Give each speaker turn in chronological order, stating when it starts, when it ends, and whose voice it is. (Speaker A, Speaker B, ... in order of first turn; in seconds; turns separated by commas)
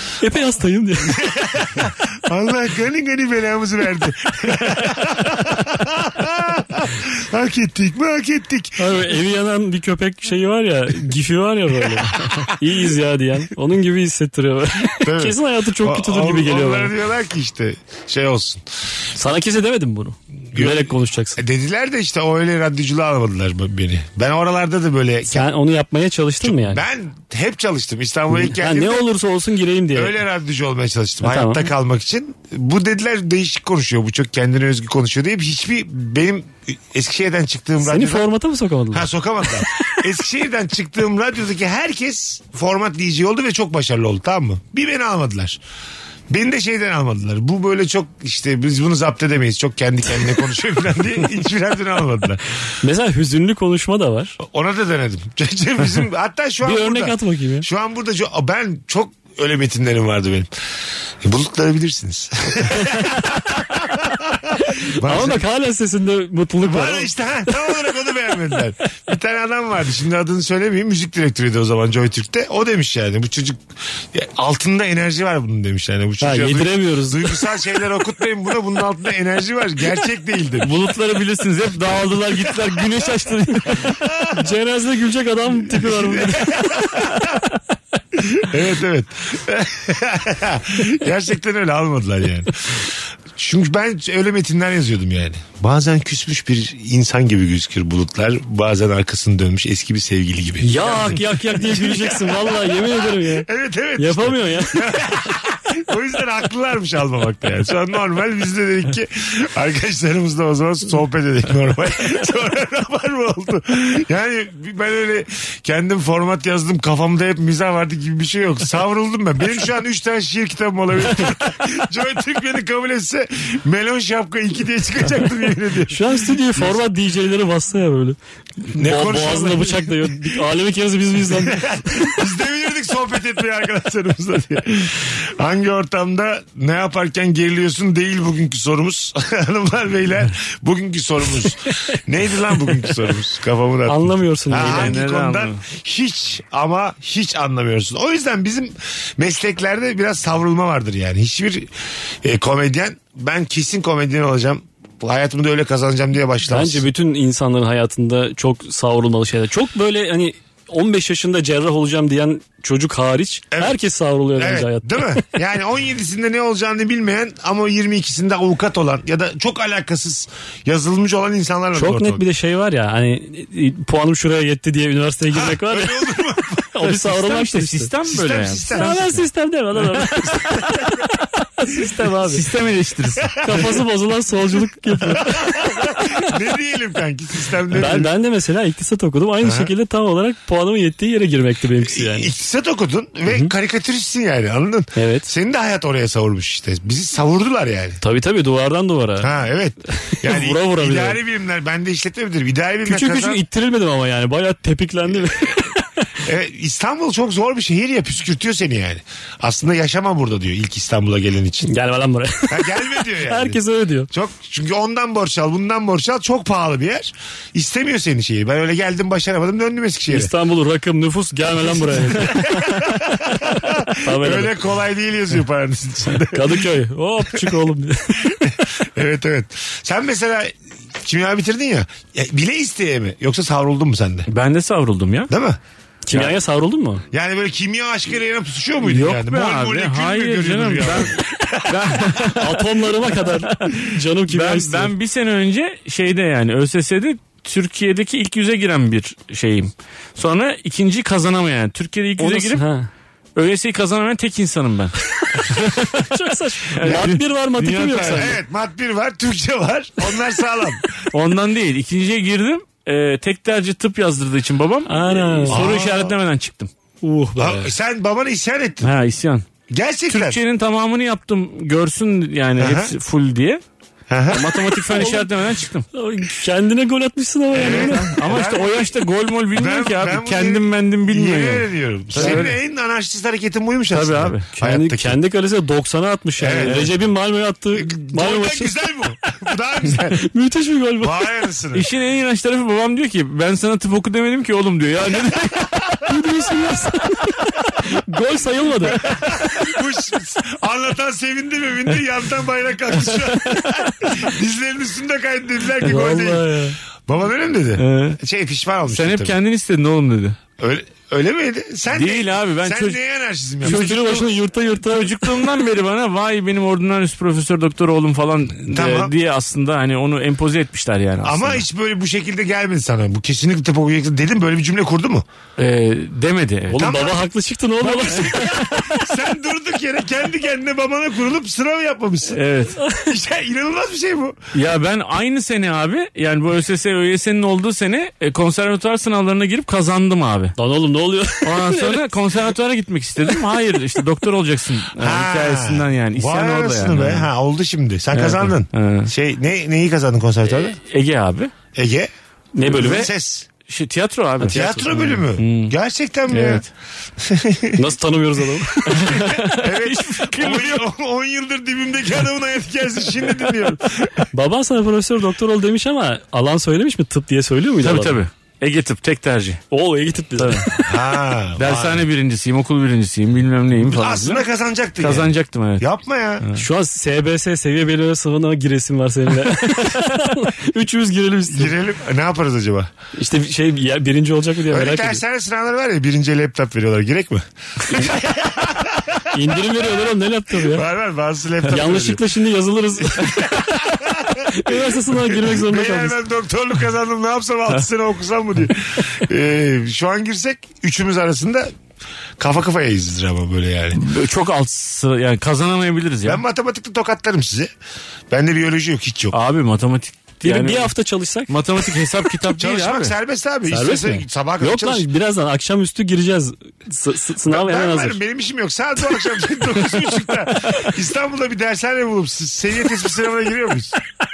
Speaker A: 0.2-1.4, Speaker B: 1.1-9.1, Speaker A: 8.8-16.9, Speaker B: 14.9-18.6, Speaker A: 19.1-21.4, Speaker B: 20.5-25.5, Speaker A: 25.3-26.8, Speaker B: 26.4-29.1, Speaker A: 28.3-30.1, Speaker B: 29.9-38.3, Speaker A: 31.2-31.7, Speaker A: 37.8-40.0, Speaker B: 38.9-45.6, Speaker B: 46.3-52.4, Speaker A: 52.8-54.4, Speaker B: 54.4-60.5, Speaker A: 56.6-57.7, Speaker B: 61.2-65.4, Speaker A: 62.8-63.4, Speaker A: 64.7-67.7, Speaker B: 66.6-80.7, Speaker A: 76.2-77.5, Speaker C: 80.6-84.0, Speaker B: 83.9-84.4, Speaker A: 84.3-87.0, Speaker B: 85.7-87.4, Speaker B: 88.1-126.8, Speaker A: 100.6-105.0, Speaker A: 125.9-132.1, Speaker B: 128.7-130.3, Speaker B: 131.3-151.7, Speaker A: 143.9-145.0, Speaker C: 144.5-145.6, Speaker B: 152.2-156.9, Speaker A: 156.5-165.3, Speaker B: 163.5-163.8, Speaker B: 164.4-172.2, Speaker A: 171.7-176.2, Speaker B: 175.3-176.8, Speaker A: 176.7-177.9, Speaker C: 176.8-179.2, Speaker B: 178.1-179.0, Speaker A: 178.7-181.0, Speaker B: 180.3-180.9, Speaker A: 181.6-182.4, Speaker C: 182.2-183.5, Speaker A: 183.4-186.3, Speaker B: 183.5-183.7, Speaker B: 185.0-188.1, Speaker A: 187.7-192.3, Speaker B: 189.4-189.7, Speaker B: 191.8-198.0, Speaker A: 194.9-195.3, Speaker A: 198.0-199.3, Speaker B: 199.2-203.4, Speaker A: 199.9-201.2, Speaker A: 202.8-205.8, Speaker B: 206.2-211.7, Speaker A: 211.7-214.1, Speaker B: 212.5-220.3, Speaker A: 220.1-224.6, Speaker B: 221.9-226.7, Speaker A: 226.3-228.4, Speaker B: 227.3-227.6, Speaker B: 228.2-234.3, Speaker C: 234.3-235.3, Speaker B: 235.3-235.6, Speaker A: 236.0-237.0, Speaker B: 237.1-242.3, Speaker C: 238.8-252.6, Speaker A: 242.4-244.9, Speaker A: 252.2-252.9, Speaker C: 253.3-256.0, Speaker A: 255.6-258.3, Speaker C: 256.7-258.3, Speaker B: 257.9-260.9, Speaker C: 261.1-266.7, Speaker A: 264.9-265.7, Speaker B: 265.5-266.1, Speaker A: 267.0-267.7, Speaker B: 267.4-268.9, Speaker C: 268.8-269.5, Speaker B: 269.7-270.4, Speaker C: 270.1-273.6, Speaker B: 272.6-272.9, Speaker B: 274.1-274.5, Speaker C: 274.3-275.9, Speaker A: 274.9-275.3, Speaker A: 275.9-278.1, Speaker B: 277.5-278.9, Speaker C: 277.5-282.5, Speaker B: 279.5-285.2, Speaker A: 282.2-282.5, Speaker C: 283.9-284.5, Speaker A: 284.6-288.8, Speaker B: 286.4-286.9, Speaker B: 287.7-290.2, Speaker A: 290.1-291.1, Speaker B: 291.0-291.9, Speaker C: 291.7-296.0, Speaker A: 296.1-299.0, Speaker B: 298.8-309.4, Speaker A: 305.8-306.8, Speaker C: 307.8-308.2, Speaker C: 308.9-310.4, Speaker B: 310.6-314.2, Speaker C: 311.9-313.0, Speaker C: 313.6-321.6, Speaker A: 313.6-315.1, Speaker B: 318.7-319.1, Speaker B: 321.2-325.2, Speaker C: 325.6-326.8, Speaker A: 326.7-328.7, Speaker B: 326.8-334.4, Speaker C: 332.3-332.8, Speaker C: 334.5-340.5, Speaker A: 340.6-342.0, Speaker C: 341.4-347.3, Speaker B: 345.0-350.8, Speaker C: 348.1-349.1, Speaker C: 350.5-351.5, Speaker B: 351.7-352.1, Speaker A: 352.5-353.0, Speaker B: 352.7-353.5, Speaker C: 352.7-353.1, Speaker C: 353.7-354.6, Speaker A: 354.4-355.2, Speaker B: 354.4-356.6, Speaker C: 355.4-355.7, Speaker C: 356.3-356.6, Speaker A: 356.4-356.6, Speaker B: 357.2-357.9, Speaker A: 357.8-359.2, Speaker C: 358.9-360.8, Speaker B: 358.9-364.2, Speaker A: 364.3-368.2, Speaker C: 367.8-369.6, Speaker A: 369.7-370.7, Speaker C: 370.4-370.7, Speaker B: 370.8-372.1, Speaker C: 371.6-374.4, Speaker B: 373.9-376.4, Speaker C: 375.0-375.9, Speaker A: 376.6-381.8, Speaker B: 381.5-382.9, Speaker A: 383.1-385.2, Speaker B: 384.7-389.9, Speaker A: 389.3-390.8, Speaker B: 390.5-392.2, Speaker A: 391.7-393.5, Speaker B: 393.1-401.7, Speaker A: 394.5-396.2, Speaker B: 402.4-404.0, Speaker C: 403.9-406.4, Speaker B: 406.2-407.7, Speaker B: 408.3-409.4, Speaker C: 409.3-410.9, Speaker A: 410.4-411.5, Speaker C: 411.5-413.1, Speaker B: 412.4-415.1, Speaker A: 413.7-418.2, Speaker B: 417.4-424.0